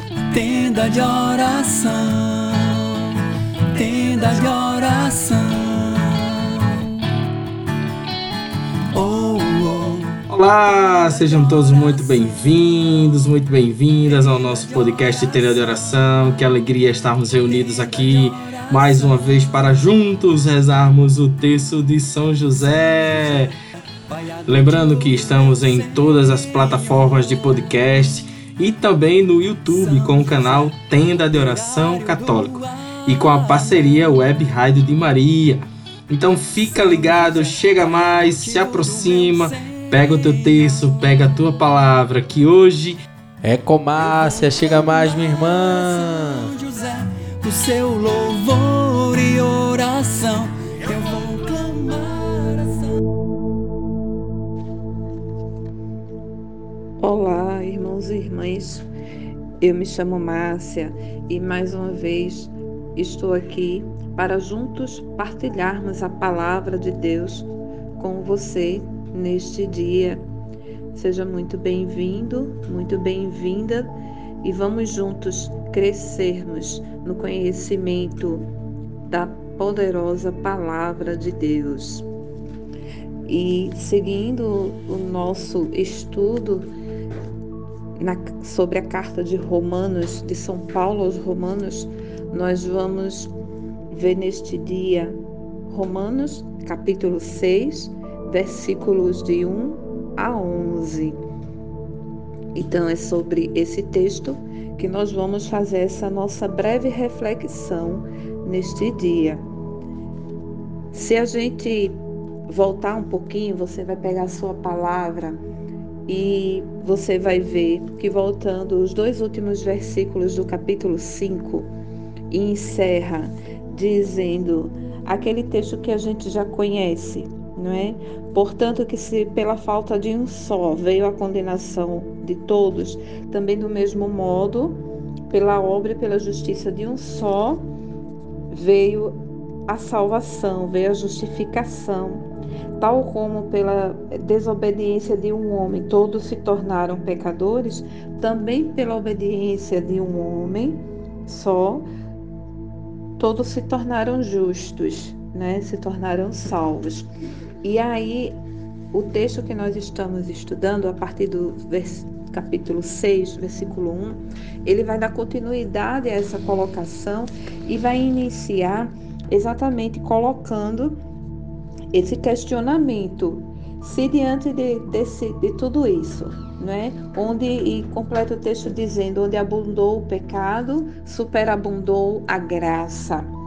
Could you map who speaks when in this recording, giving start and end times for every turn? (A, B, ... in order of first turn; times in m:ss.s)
0:00.3-0:07.0 A
0:08.9-0:10.2 A
0:10.3-0:23.5 B
0:10.9-0:12.5 A
0:14.1-0:15.8 A
0:17.5-0:19.3 A
0:23.1-0:23.4 A
0:24.1-0:27.3 A
0:24.5-0:43.0 B
0:29.7-0:33.9 A
0:36.6-0:40.5 A
0:43.4-0:46.5 C
0:44.1-0:52.9 A
0:57.0-0:58.8 D
0:59.6-1:10.2 D
1:10.9-1:18.4 D
1:19.0-1:22.0 D
1:23.2-1:26.7 D
1:28.0-1:33.3 D
1:33.9-1:35.2 D
1:35.7-1:41.2 D
1:42.5-1:49.4 D
1:50.9-1:51.9 D
1:52.5-1:55.4 D
1:56.1-2:01.7 D
2:02.3-2:17.6 D
2:18.5-2:19.1 D
2:19.7-2:22.2 D
2:22.8-2:31.9 D
2:33.2-2:37.1 D
2:37.6-2:38.4 D
2:38.9-2:51.0 D
2:51.9-3:03.3 D